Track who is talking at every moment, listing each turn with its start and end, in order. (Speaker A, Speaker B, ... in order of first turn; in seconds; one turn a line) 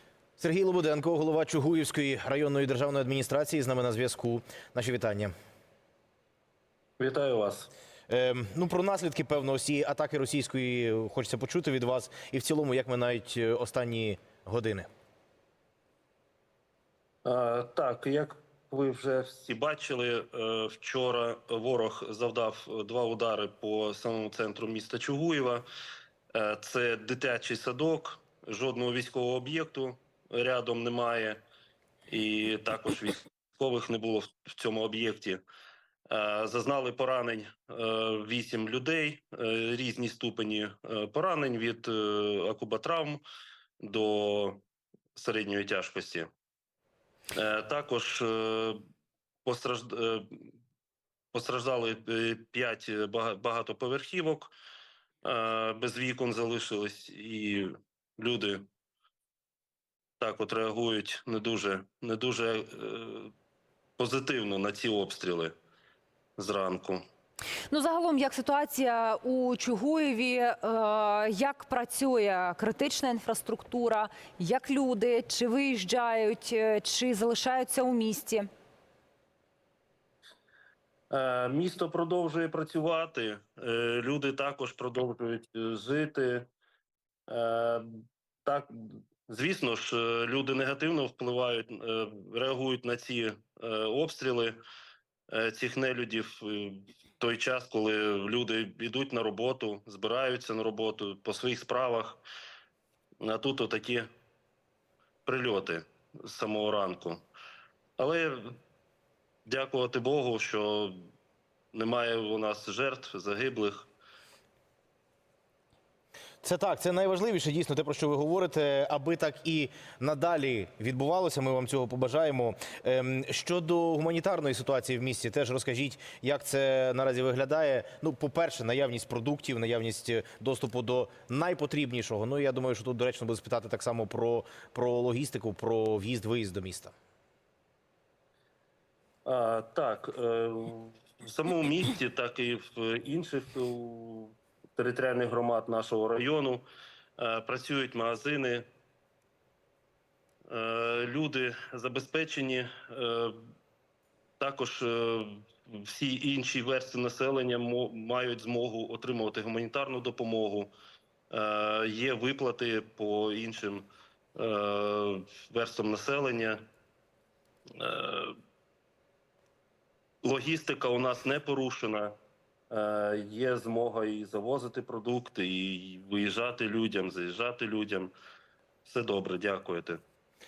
Speaker A: 0.4-5.3
Speaker B: 7.0-7.7
Speaker A: 8.1-14.9
Speaker B: 17.2-25.6
Speaker B: 26.3-31.4
Speaker B: 32.1-35.4
Speaker B: 36.1-43.2
Speaker B: 43.8-44.6
Speaker B: 45.1-46.3
Speaker B: 47.3-48.8
Speaker B: 49.5-50.5
Speaker B: 51.3-54.5
Speaker B: 55.2-58.7
Speaker B: 60.2-63.3
Speaker B: 64.0-65.5
Speaker B: 66.4-67.0
Speaker C: 67.7-78.5
Speaker B: 81.1-86.5
Speaker B: 87.3-94.6
Speaker B: 95.3-102.2
Speaker B: 103.2-104.1
Speaker B: 105.2-107.2
Speaker B: 108.0-108.6
Speaker B: 109.5-111.1
Speaker B: 111.7-113.9
Speaker A: 116.4-136.9
Speaker B: 139.2-146.6
Speaker B: 147.2-148.7
Speaker B: 150.5-153.4
Speaker B: 154.4-160.7
Speaker B: 161.3-166.7
Speaker B: 167.8-168.4
Speaker B: 170.2-172.2
Speaker B: 172.7-178.1
Speaker B: 178.8-180.0